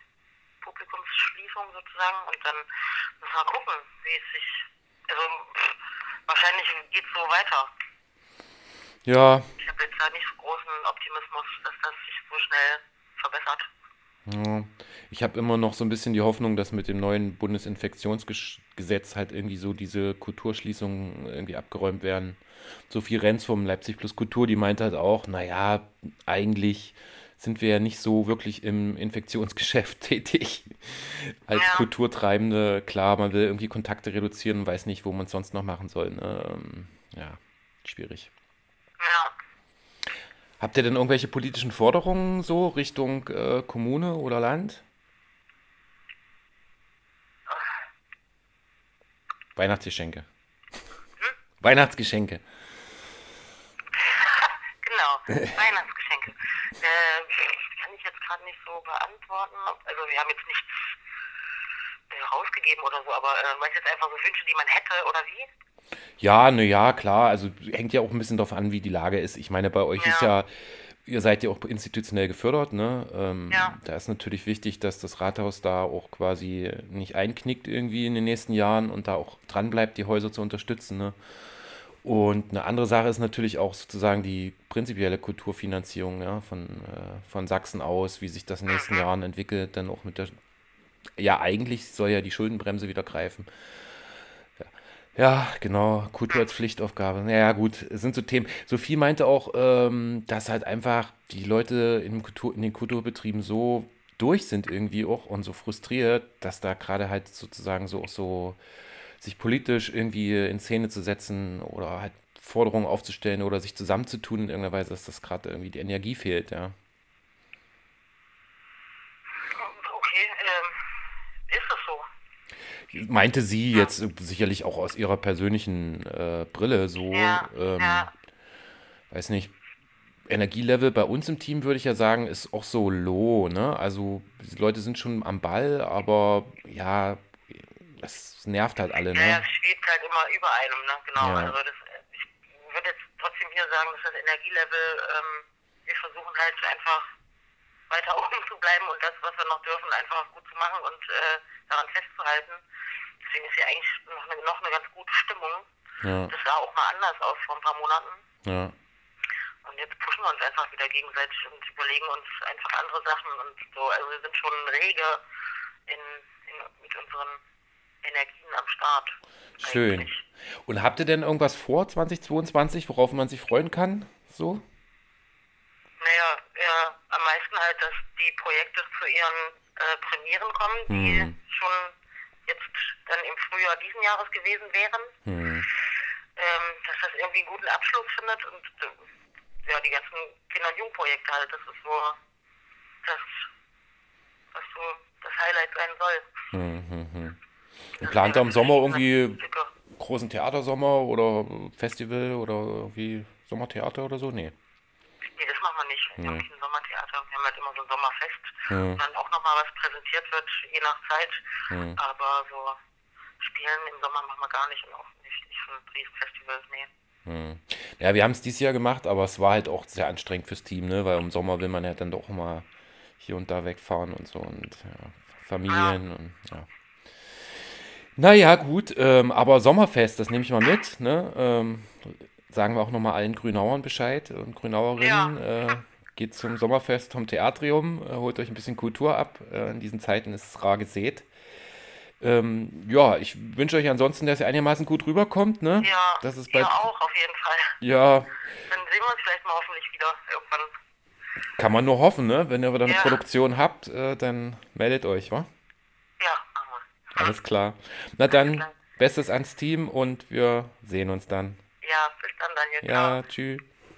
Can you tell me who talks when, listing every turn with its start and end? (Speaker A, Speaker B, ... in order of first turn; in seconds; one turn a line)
Speaker A: 0.6-2.6
Speaker A: 3.2-7.7
Speaker B: 9.1-9.5
Speaker A: 9.6-13.7
Speaker B: 14.3-38.3
Speaker A: 31.5-31.9
Speaker A: 39.0-39.3
Speaker B: 40.6-44.8
Speaker B: 49.5-50.3
Speaker B: 51.6-52.4
Speaker A: 54.0-60.9
Speaker A: 62.1-65.5
Speaker B: 66.2-81.2
Speaker A: 70.0-70.3
Speaker A: 73.5-73.8
Speaker B: 82.0-90.4
Speaker A: 88.7-89.0
Speaker B: 91.2-93.9
Speaker B: 94.6-108.6
Speaker B: 109.2-116.7
Speaker A: 119.4-120.9
Speaker A: 121.5-122.1
Speaker B: 122.9-128.1
Speaker A: 127.1-128.1
Speaker B: 129.1-129.5
Speaker B: 130.3-139.4
Speaker A: 139.1-147.1
Speaker B: 141.2-141.6
Speaker A: 147.9-152.6
Speaker A: 153.2-155.7
Speaker B: 156.0-156.3
Speaker A: 156.3-158.2
Speaker B: 158.4-158.7
Speaker A: 159.6-165.2
Speaker A: 165.9-167.4
Speaker A: 168.0-170.2
Speaker B: 169.6-174.6
Speaker A: 176.0-181.9
Speaker B: 180.9-181.3
Speaker A: 182.4-185.1
Speaker B: 185.2-185.7
Speaker A: 186.3-189.0
Speaker A: 189.6-192.2
Speaker A: 193.0-193.5
Speaker A: 194.5-196.3
Speaker B: 196.5-197.4
Speaker B: 197.9-204.5
Speaker A: 198.0-199.7
Speaker A: 205.3-211.4
Speaker B: 206.2-206.4
Speaker B: 208.7-209.0
Speaker B: 211.7-212.0
Speaker A: 211.9-212.8
Speaker A: 213.4-216.9
Speaker B: 217.2-222.7
Speaker B: 223.2-226.7
Speaker A: 225.7-226.0
Speaker B: 227.3-227.6
Speaker B: 228.2-241.3
Speaker A: 235.0-235.7
Speaker B: 242.2-246.8
Speaker A: 245.8-247.8
Speaker B: 247.8-248.3
Speaker A: 248.7-250.7
Speaker B: 251.6-255.5
Speaker A: 252.8-253.2
Speaker A: 256.2-257.3
Speaker B: 257.1-261.6
Speaker A: 258.3-258.7
Speaker A: 261.8-263.2
Speaker B: 262.8-263.6